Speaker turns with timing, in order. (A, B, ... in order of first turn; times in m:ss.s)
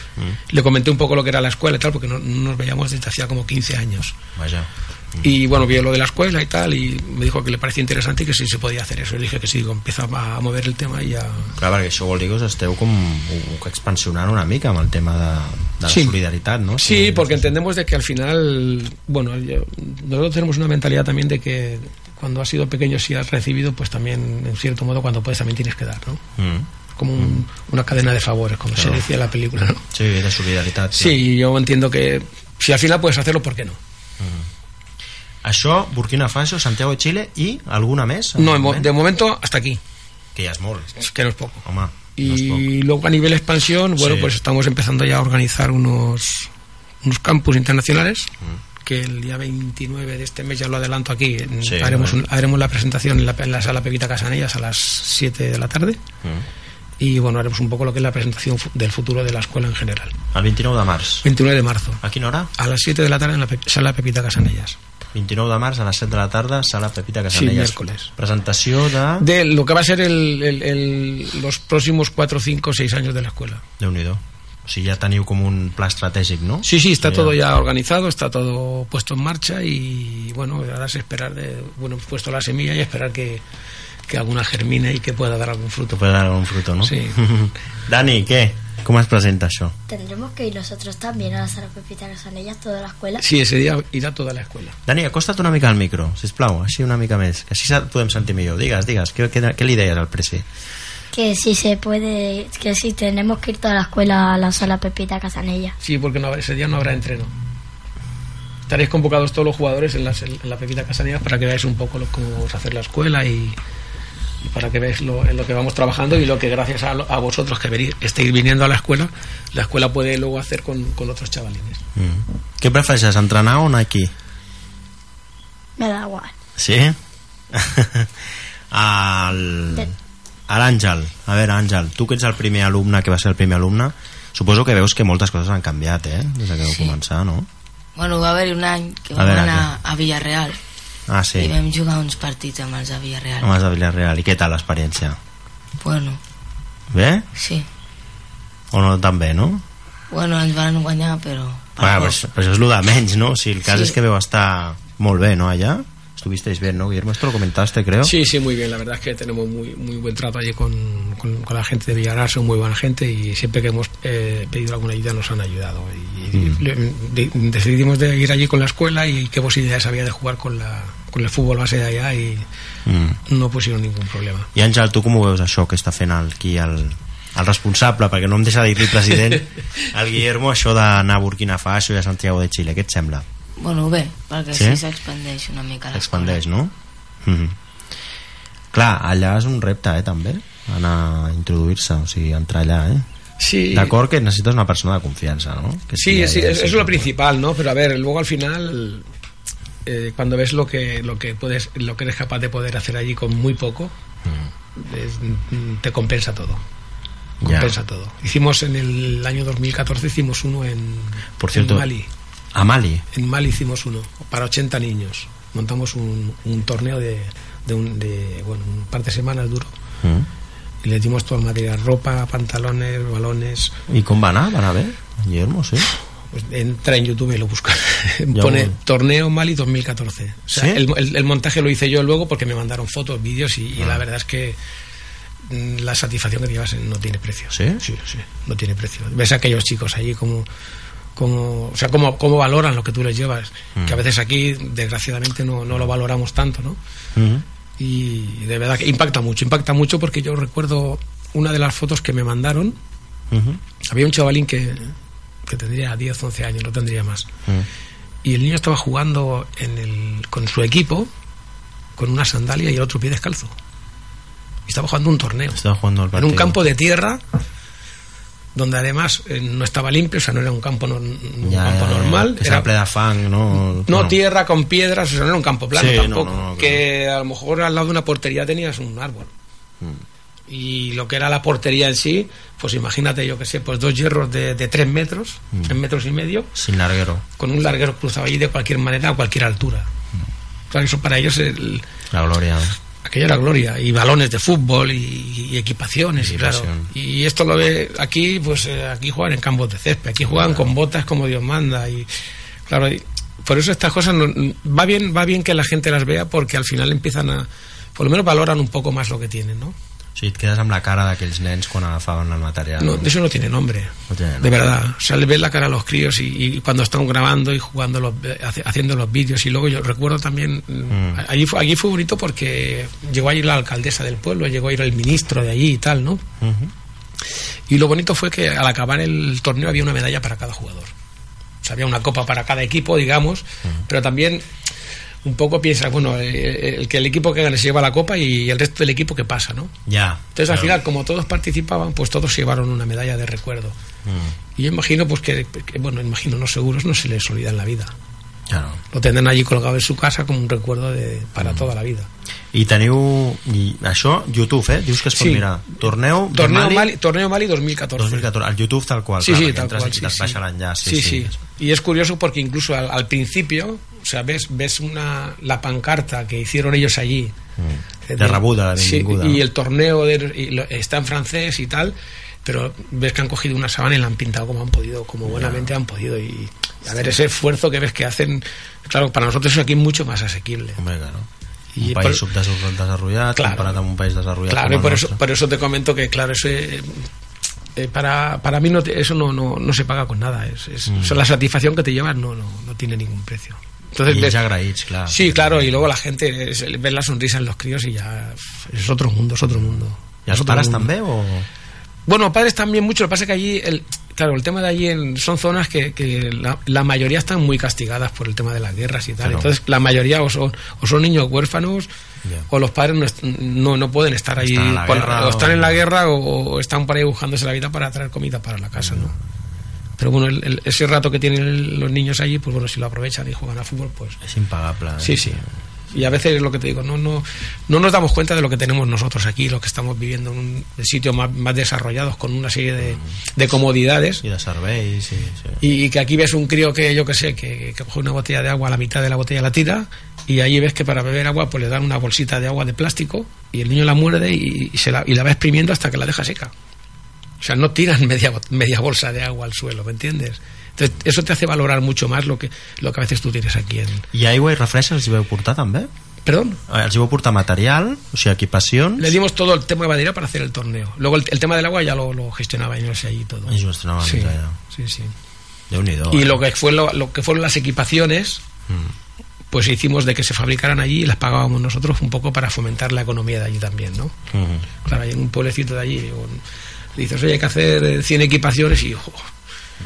0:00.5-0:04.2 A
0:04.4-0:05.3 B
0:05.2-0:11.5 A
0:11.6-0:17.5 B
0:15.8-0:16.2 A
0:16.8-0:26.2 A
0:26.4-0:27.4 B
0:27.0-0:29.8 A
0:28.7-0:29.0 B
0:29.9-0:31.2 B
0:30.9-0:33.8 A
0:34.2-0:34.5 B
0:35.4-0:38.9 B
0:38.4-0:39.8 A
0:40.3-0:41.0 B
0:41.0-0:41.6 A
0:41.6-0:42.6 B
0:42.2-0:46.5 A
0:44.0-0:44.3 B
0:47.0-0:56.0 A
0:51.6-0:52.2 B
0:57.0-1:00.2 A
1:00.3-1:01.2 B
1:01.2-1:02.0 A
1:02.0-1:02.5 B
1:02.6-1:04.8 A
1:05.1-1:09.3 B
1:07.3-1:08.1 A
1:09.2-1:13.6 A
1:13.8-1:17.4 B
1:16.6-1:23.4 A
1:24.1-1:26.0 A
1:25.9-1:29.7 B
1:26.8-1:27.2 A
1:29.9-1:33.2 C
1:33.2-1:34.8 A
1:34.8-1:40.4 B
1:41.1-1:45.7 C
1:45.8-1:47.3 A
1:48.7-1:53.6 A
1:54.4-2:01.8 A
2:02.0-2:04.1 B
2:05.8-2:06.3 C
2:06.6-2:07.0 B
2:07.5-2:09.9 B
2:10.5-2:17.5 B
2:16.7-2:17.0 D
2:18.0-2:20.6 D
2:19.2-2:19.7 B
2:21.1-2:21.5 B
2:21.4-2:23.5 D
2:23.4-2:25.2 B
2:25.8-2:26.2 D
2:26.9-2:27.3 B
2:27.4-2:27.6 D
2:28.7-2:29.6 B
2:30.1-2:32.2 D
2:31.8-2:38.1 B
2:33.6-2:33.9 D
2:38.0-2:52.4 A
2:46.3-2:46.6 B
2:52.8-2:53.2 B
2:53.3-2:54.5 A
2:54.5-3:03.2 B
3:03.6-3:06.4 D
3:04.5-3:04.8 B
3:05.9-3:07.6 B
3:08.7-3:13.0 B
3:13.4-3:13.9 A
3:13.7-3:17.1 B
3:16.0-3:19.0 A
3:19.8-3:23.9 A
3:24.7-3:26.6 A
3:27.4-3:27.8 B
3:27.4-3:32.1 A
3:31.4-3:31.9 B
3:32.5-3:33.0 B
3:33.1-3:39.7 A
3:40.0-3:40.3 B
3:40.8-3:43.7 A
3:43.9-3:45.9 B
3:46.3-3:54.6 A
3:48.3-3:48.8 B
3:50.5-3:50.8 B
3:53.8-3:54.0 B
3:55.4-4:00.5 A
3:57.5-3:57.8 B
4:01.2-4:06.8 A
4:03.8-4:04.0 B
4:07.1-4:07.4 B
4:07.8-4:12.8 A
4:13.3-4:13.6 B
4:13.8-4:14.9 A
4:15.4-4:17.3 A
4:18.2-4:21.1 A
4:22.0-4:23.5 A
4:24.6-4:25.6 A
4:25.5-4:26.6 B
4:26.1-4:27.2 A
4:28.5-4:32.7 A
4:31.4-4:34.2 B
4:33.9-4:39.3 A
4:35.7-4:36.8 B
4:40.5-4:46.5 A
4:46.5-4:47.2 B
4:47.4-4:49.9 A
4:50.7-4:51.8 A
4:52.1-4:52.8 B
4:53.0-5:02.1 A
4:56.2-4:56.9 B
5:00.2-5:00.7 B
5:02.7-5:09.7 A
5:10.2-5:13.1 B
5:12.8-5:26.2 A
5:14.1-5:14.6 B
5:20.9-5:21.2 B
5:26.4-5:26.7 B
5:27.7-5:30.9 A
5:31.6-5:34.4 A
5:35.2-5:39.7 A
5:39.8-5:40.8 B
5:40.3-5:43.8 A
5:44.0-5:44.3 B
5:44.6-5:47.9 A
5:48.5-5:48.8 B
5:48.9-5:52.1 A
5:51.4-5:51.7 B
5:52.5-5:56.9 B
5:55.2-5:55.4 A
5:56.3-5:58.2 A
5:58.0-6:01.4 B
5:59.2-6:07.3 A
6:07.6-6:09.4 B
6:08.1-6:20.8 A
6:15.2-6:15.7 B
6:20.8-6:21.3 B
6:21.7-6:22.2 A
6:21.8-6:25.2 B
6:23.4-6:23.8 A
6:24.5-6:27.1 A
6:27.8-6:34.4 A
6:30.9-6:31.2 B
6:34.1-6:35.8 B
6:35.1-6:40.9 A
6:40.2-6:41.5 B
6:42.0-6:51.9 A
6:49.2-6:49.5 B
6:52.2-6:52.5 B
6:52.5-6:59.1 A
6:54.4-6:55.8 B
6:58.8-6:59.1 B
7:00.0-7:04.2 A
7:04.2-7:05.4 B
7:05.0-7:14.2 A
7:12.8-7:13.0 B
7:14.2-7:15.6 B
7:15.6-7:26.5 A
7:27.4-7:34.0 A
7:34.1-7:35.9 B
7:36.2-7:36.6 A
7:36.7-7:39.2 B
7:39.0-7:45.1 A
7:43.5-7:44.6 B
7:45.7-7:46.4 B
7:46.1-7:48.4 A
7:48.7-7:48.9 B
7:49.5-7:54.1 A
7:54.3-7:54.6 B
7:54.8-7:56.4 A
7:57.0-7:59.3 A